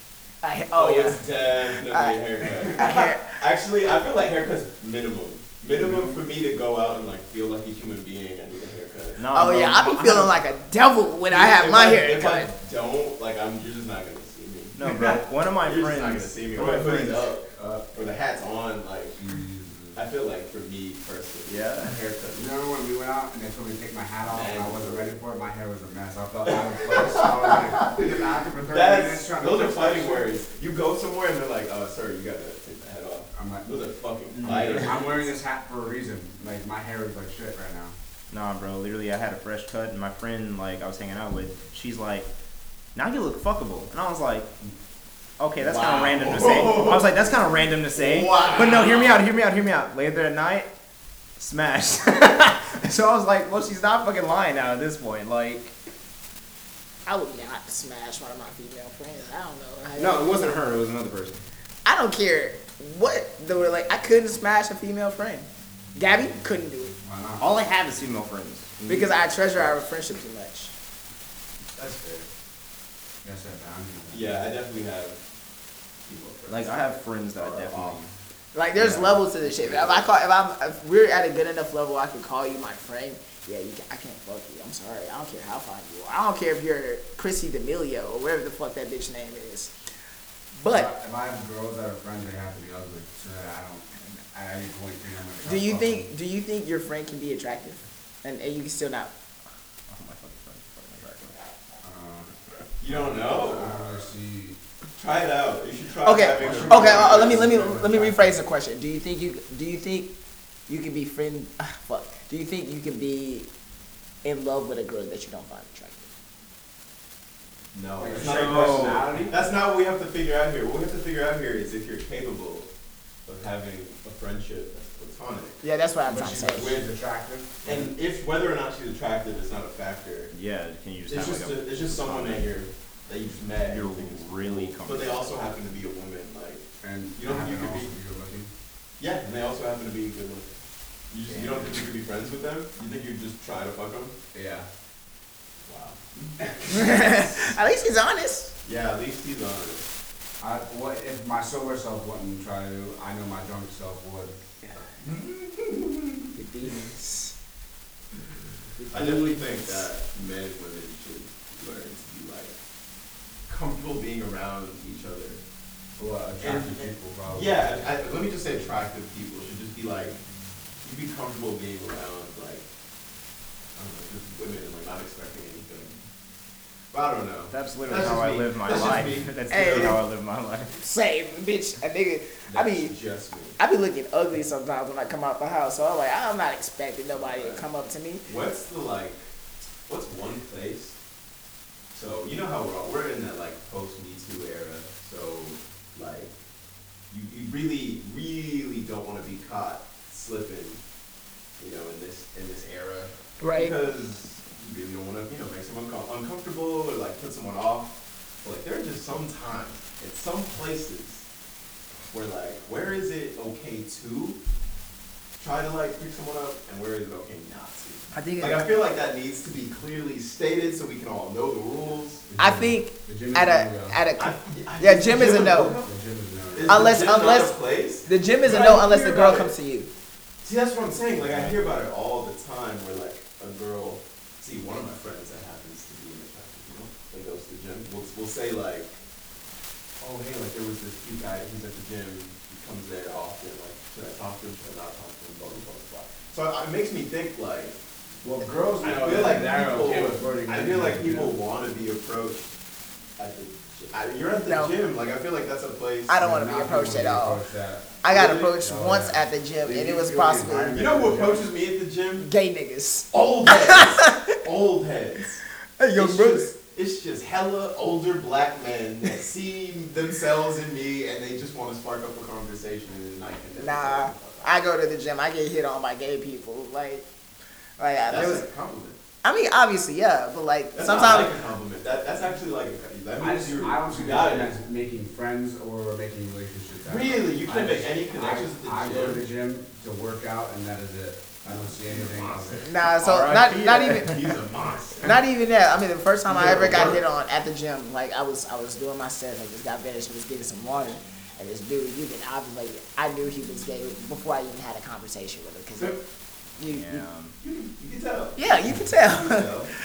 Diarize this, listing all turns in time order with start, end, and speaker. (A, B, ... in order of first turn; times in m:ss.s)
0:00.4-0:01.2 A
0:00.7-0:09.2 B
0:01.9-0:03.3 A
0:05.7-0:06.2 C
0:09.2-0:10.4 D
0:09.3-0:12.5 A
0:11.3-0:19.2 B
0:14.7-0:17.3 D
0:17.6-0:17.9 C
0:19.2-0:20.0 C
0:20.0-0:22.5 B
0:21.5-0:22.0 D
0:22.4-0:30.4 C
0:24.3-0:25.2 B
0:26.5-0:35.3 B
0:33.3-0:33.8 C
0:34.4-0:34.9 D
0:34.4-0:38.0 C
0:38.3-0:42.3 D
0:43.0-0:44.5 D
0:45.4-0:50.7 D
0:45.6-0:49.2 B
0:51.4-0:55.8 D
0:57.1-1:00.6 A
1:00.0-1:01.4 D
1:01.8-1:07.0 A
1:07.0-1:07.5 C
1:07.4-1:09.4 D
1:08.9-1:10.7 A
1:11.8-1:12.3 B
1:13.2-1:14.5 C
1:14.1-1:15.2 B
1:16.1-1:18.0 B
1:16.5-1:18.1 D
1:18.5-1:29.7 A
1:19.4-1:20.1 B
1:30.6-1:30.9 A
1:30.7-1:36.1 C
1:35.4-1:39.1 A
1:39.9-1:41.4 D
1:41.8-1:42.3 C
1:42.8-1:43.8 B
1:42.9-1:44.6 C
1:45.0-1:47.7 B
1:46.0-1:50.1 A
1:46.4-1:48.4 C
1:50.7-1:53.5 A
1:54.2-1:56.1 A
1:57.7-2:02.7 B
1:58.0-1:59.5 C
1:58.1-1:59.0 D
2:03.3-2:05.6 B
2:05.6-2:06.8 A
2:06.1-2:07.9 C
2:06.5-2:06.9 B
2:07.6-2:10.3 B
2:10.3-2:12.5 D
2:11.1-2:17.9 B
2:13.6-2:15.4 D
2:16.8-2:18.5 C
2:19.0-2:20.5 B
2:21.1-2:24.2 B
2:21.3-2:21.9 C
2:24.3-2:24.7 C
2:25.6-2:27.0 B
2:26.4-2:26.9 C
2:26.7-2:28.5 A
2:28.6-2:29.9 B
2:30.4-2:34.4 C
2:35.0-2:36.2 B
2:36.4-2:37.4 A
2:38.8-2:39.9 A
2:38.9-2:42.6 B
2:43.5-2:45.4 B
2:46.0-2:47.6 C
2:46.4-2:50.2 B
2:50.8-2:52.7 B
2:53.8-2:56.0 B
2:56.9-2:59.9 B
2:57.5-3:00.7 D
2:59.5-3:00.0 A
3:00.8-3:02.9 A
3:02.5-3:03.6 B
3:03.6-3:08.3 A
3:07.1-3:07.7 B
3:08.3-3:09.2 B
3:09.9-3:11.0 B
3:11.9-3:16.4 B
3:17.1-3:20.8 B
3:21.6-3:31.3 B
3:23.4-3:23.8 A
3:32.1-3:34.4 B
3:35.4-3:42.2 B
3:38.1-3:38.7 A
3:42.3-3:44.0 C
3:42.4-3:45.8 A
3:44.2-3:45.9 B
3:45.8-3:47.0 C
3:46.5-3:49.5 B
3:46.7-3:49.9 A
3:50.4-3:59.0 B
4:00.0-4:07.8 B
4:08.2-4:11.4 C
4:08.8-4:12.5 B
4:13.2-4:16.2 B
4:14.4-4:14.7 A
4:16.1-4:17.4 A
4:16.2-4:21.5 C
4:18.0-4:20.8 A
4:18.1-4:18.5 B
4:20.7-4:22.3 B
4:22.2-4:24.4 A
4:23.1-4:25.4 B
4:25.8-4:26.5 A
4:26.0-4:34.5 B
4:33.6-4:37.1 A
4:37.8-4:38.5 A
4:38.1-4:39.0 B
4:39.2-4:41.3 A
4:40.7-4:44.6 B
4:43.2-4:52.6 C
4:46.9-4:49.2 B
4:51.4-4:52.7 B
4:52.6-4:54.2 A
4:52.8-4:54.2 D
4:54.0-4:55.2 B
4:55.0-5:06.0 A
4:56.3-4:57.0 B
5:06.6-5:07.0 A
5:06.7-5:07.4 D
5:07.4-5:09.7 B
5:08.4-5:09.5 A